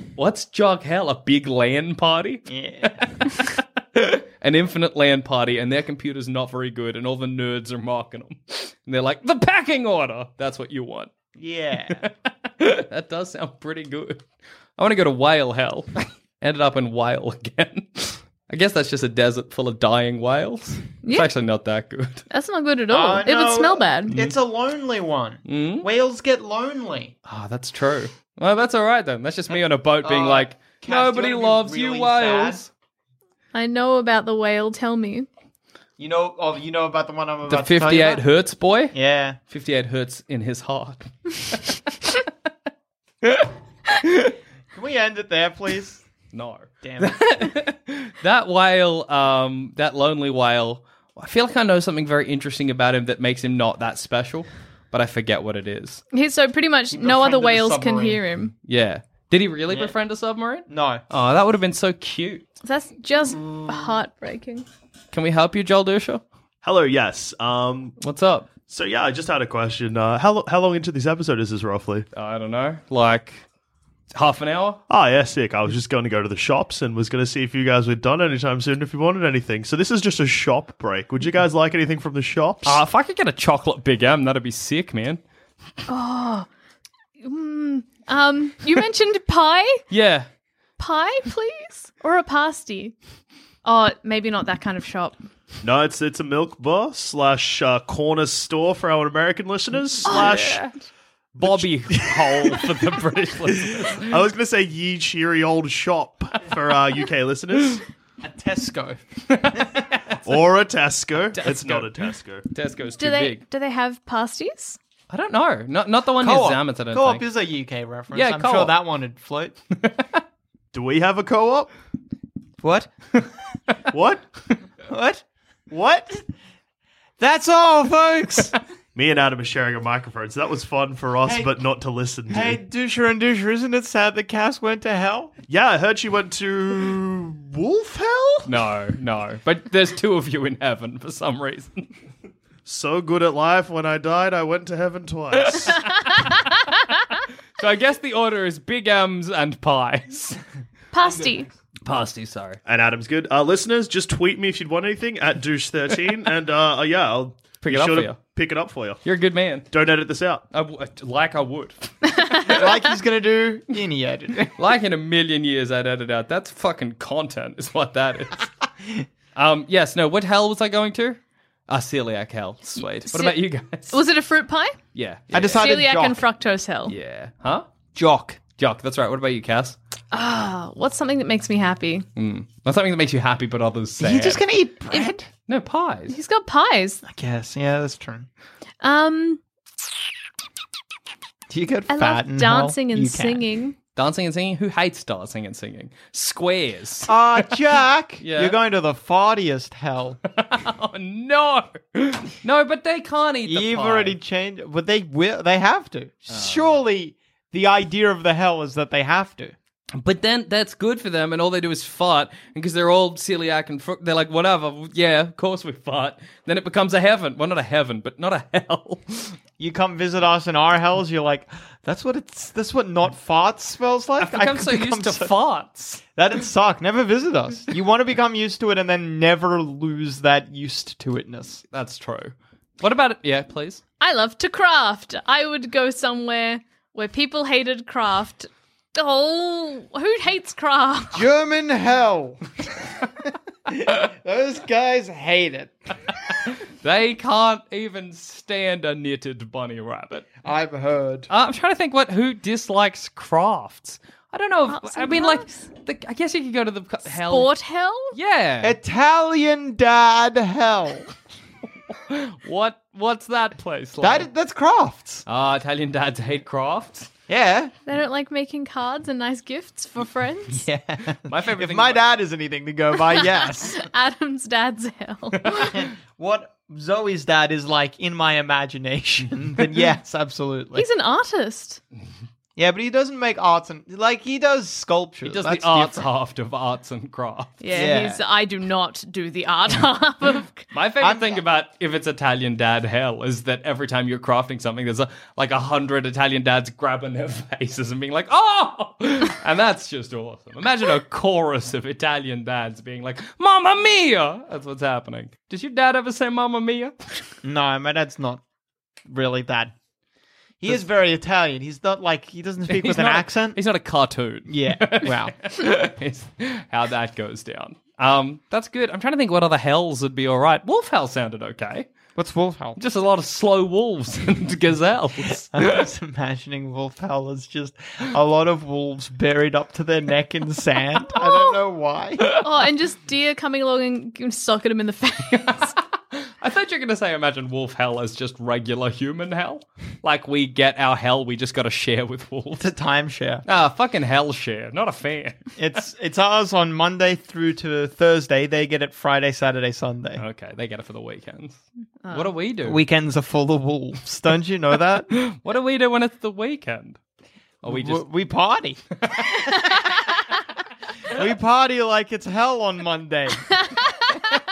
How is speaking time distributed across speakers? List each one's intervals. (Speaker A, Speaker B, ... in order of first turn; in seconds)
Speaker A: 0.2-11.1, 11.9-14.2, 14.8-22.2, 25.5-25.9, 27.3-32.7, 37.5-39.0, 39.5-42.1, 43.2-44.4, 46.3-56.0, 58.7-62.5, 65.1-66.2, 68.0-68.5, 72.1-73.4, 74.1-74.8, 82.7-85.2, 89.9-90.3, 100.0-100.7, 101.4-104.2, 109.3-110.3, 111.3-113.4, 115.1-117.2, 118.1-118.8, 119.8-120.2, 138.5-141.9, 145.5-146.8, 147.6-150.4, 151.8-152.6, 157.6-158.2, 159.0-159.7, 160.5-162.6, 164.6-168.5, 169.3-174.0, 174.9-175.7, 176.9-179.8, 182.2-184.4, 185.5-186.2, 193.9-197.2, 198.2-198.6, 200.3-204.2, 206.3-206.8, 210.0-219.4, 224.2-226.0, 231.7-233.8, 246.7-250.3, 251.3-257.5, 258.1-258.8, 261.9-264.3, 265.3-267.1, 271.3-272.0, 285.2-287.6, 290.7-306.9, 312.7-321.9, 322.8-325.9, 336.1-342.6, 343.5-345.4, 350.2-351.6, 352.1-352.8, 355.1-357.0, 357.6-358.0, 359.0-359.7
Speaker B: 2.5-3.0, 11.4-12.1, 22.9-27.1, 30.0-32.7, 36.0-38.2, 38.9-39.4, 44.7-46.0, 46.8-47.2, 56.9-58.2, 59.7-59.9, 60.7-61.0, 63.3-64.0, 108.2-109.8, 116.2-119.6, 122.6-123.3, 124.9-126.2, 127.2-128.6, 131.2-131.5, 132.3-135.3, 162.4-164.5, 175.3-176.2, 178.0-178.4, 184.0-185.3, 187.0-188.3, 191.5-193.4, 197.1-200.2, 203.4-209.6, 219.6-225.3, 226.2-231.6, 241.1-242.4, 243.7-245.9, 250.4-251.3, 258.6-261.1, 264.0-265.2, 267.3-267.7, 270.5-273.8, 275.5-280.9, 282.6-286.0, 287.7-288.2, 291.0-291.4, 307.4-308.4, 309.1-309.7, 310.6-313.6, 314.5-315.4, 322.2-322.8, 325.5-332.3, 342.6-343.4, 345.6-350.2, 352.6-355.2, 357.6-358.8, 361.1-363.5
Speaker C: 22.3-24.1, 33.5-35.3, 56.1-58.5, 62.6-64.7, 85.9-86.5, 87.2-89.8, 90.8-93.0, 93.7-95.2, 100.0-100.6, 113.0-114.8, 150.9-151.5, 173.1-173.4, 173.9-174.8, 175.6-176.9, 180.1-182.1, 186.1-187.0, 188.8-189.4, 191.9-193.8, 234.0-241.2, 254.7-255.6, 257.1-258.1, 267.9-270.6, 273.6-275.7, 280.8-281.8, 287.6-290.6, 332.4-335.8, 352.1-352.3, 363.5-364.3
Speaker D: 66.6-68.0, 68.7-72.1, 74.9-82.8, 95.6-100.7, 101.4-102.7, 103.5-107.8, 110.3-112.5, 120.7-121.7, 123.9-124.2, 128.9-132.6, 135.5-138.5, 142.7-145.8, 152.7-159.0, 159.7-160.4